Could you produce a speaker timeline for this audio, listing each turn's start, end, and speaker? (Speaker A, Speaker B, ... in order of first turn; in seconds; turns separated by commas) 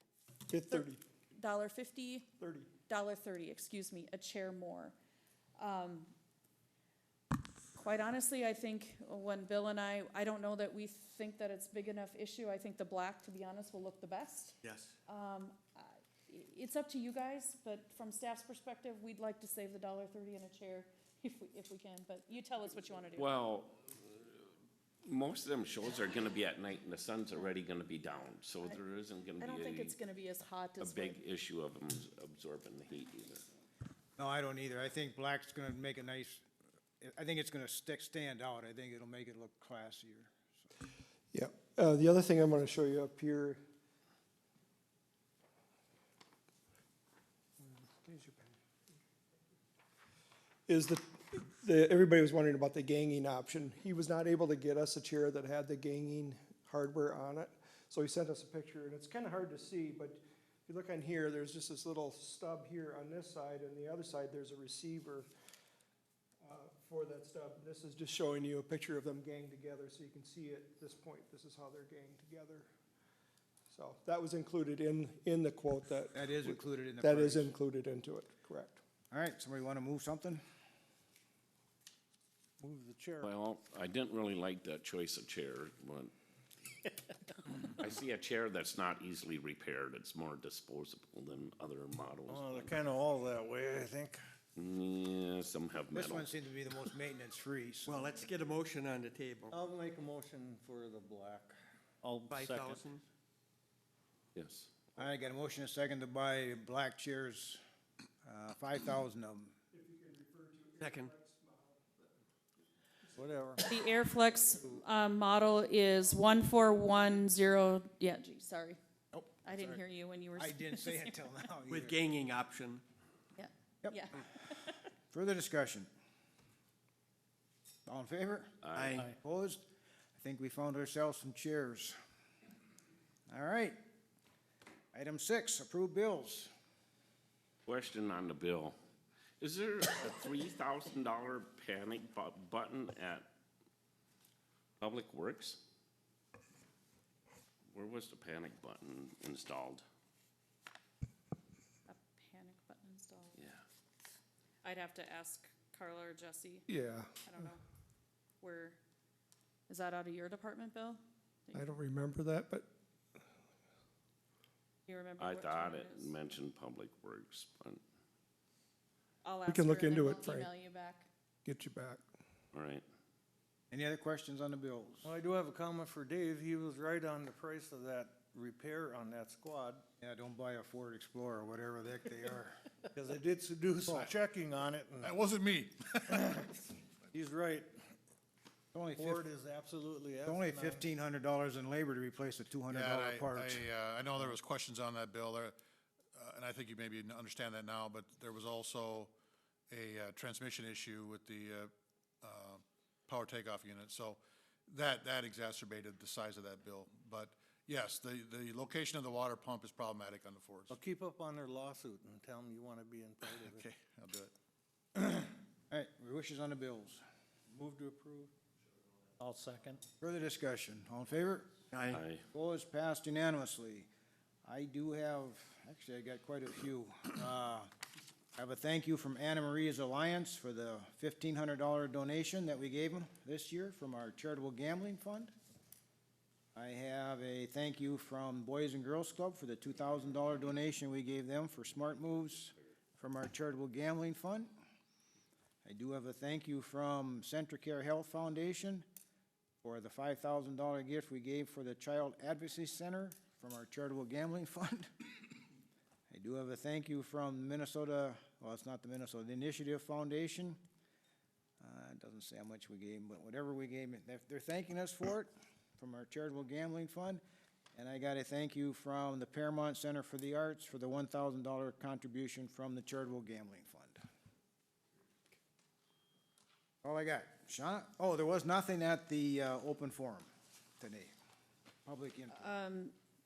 Speaker A: 0.5-1.0, Speaker B: 0.6-2.3, Speaker A: 2.4-2.7, Speaker B: 2.9-5.0, Speaker B: 5.6-6.1, Speaker B: 7.7-14.6, Speaker C: 14.6-14.9, Speaker B: 15.1-23.4, Speaker D: 23.1-24.4, Speaker D: 25.0-29.9, Speaker B: 29.4-31.2, Speaker D: 30.8-33.4, Speaker E: 34.2-36.4, Speaker E: 37.0-40.7, Speaker A: 41.3-43.6, Speaker A: 47.8-48.5, Speaker A: 50.7-65.3, Speaker A: 66.4-72.7, Speaker A: 73.7-78.8, Speaker E: 76.1-77.5, Speaker E: 79.1-80.4, Speaker F: 82.6-83.3, Speaker D: 83.2-86.1, Speaker D: 87.6-92.8, Speaker F: 92.3-94.2, Speaker D: 94.5-96.3, Speaker E: 95.9-98.0, Speaker C: 97.8-99.5, Speaker F: 99.5-102.9, Speaker C: 102.3-103.0, Speaker D: 104.3-104.7, Speaker E: 105.0-107.6, Speaker E: 108.2-109.5, Speaker A: 109.7-112.1, Speaker C: 110.8-111.1, Speaker F: 113.1-113.6, Speaker B: 113.7-118.8, Speaker E: 119.1-119.8, Speaker B: 119.4-121.2, Speaker E: 120.3-122.0, Speaker C: 121.7-122.8, Speaker B: 123.4-124.7, Speaker E: 123.8-124.1, Speaker E: 125.1-125.9, Speaker E: 127.9-129.6, Speaker D: 128.6-129.1, Speaker C: 128.8-129.1, Speaker E: 130.2-132.0, Speaker E: 133.3-133.8, Speaker E: 134.9-136.5, Speaker D: 137.7-138.8, Speaker D: 139.4-143.3, Speaker D: 144.8-145.6, Speaker D: 147.7-149.8, Speaker B: 151.9-153.4, Speaker D: 153.4-153.6, Speaker B: 154.6-156.7, Speaker A: 156.7-157.2, Speaker B: 157.2-157.6, Speaker B: 158.4-158.8, Speaker B: 159.7-161.8, Speaker A: 161.5-162.7, Speaker B: 164.9-166.2, Speaker D: 165.2-167.8, Speaker B: 169.2-171.1, Speaker A: 169.5-170.5, Speaker A: 171.4-172.0, Speaker D: 172.5-172.8, Speaker E: 173.7-175.1, Speaker F: 175.0-179.8, Speaker E: 180.0-182.6, Speaker F: 183.0-185.1, Speaker G: 183.9-184.2, Speaker G: 185.0-186.4, Speaker F: 186.1-186.6, Speaker F: 187.1-187.7, Speaker E: 188.7-189.2, Speaker F: 188.9-190.9, Speaker E: 190.2-193.7, Speaker G: 192.7-195.6, Speaker G: 196.2-199.1, Speaker G: 199.7-201.7, Speaker G: 202.2-210.8, Speaker F: 210.7-213.6, Speaker G: 213.2-214.3, Speaker E: 215.0-217.0, Speaker F: 217.5-218.3, Speaker F: 219.2-219.8, Speaker E: 220.0-221.6, Speaker C: 221.7-222.0, Speaker D: 221.9-222.2, Speaker E: 222.3-223.9, Speaker E: 224.4-227.7, Speaker E: 228.4-235.3, Speaker E: 236.6-244.6, Speaker E: 245.7-248.8, Speaker E: 249.6-254.9, Speaker E: 256.1-260.6, Speaker E: 261.6-267.2, Speaker E: 267.8-274.0, Speaker E: 276.8-281.1, Speaker E: 281.9-282.5, Speaker B: 282.3-282.9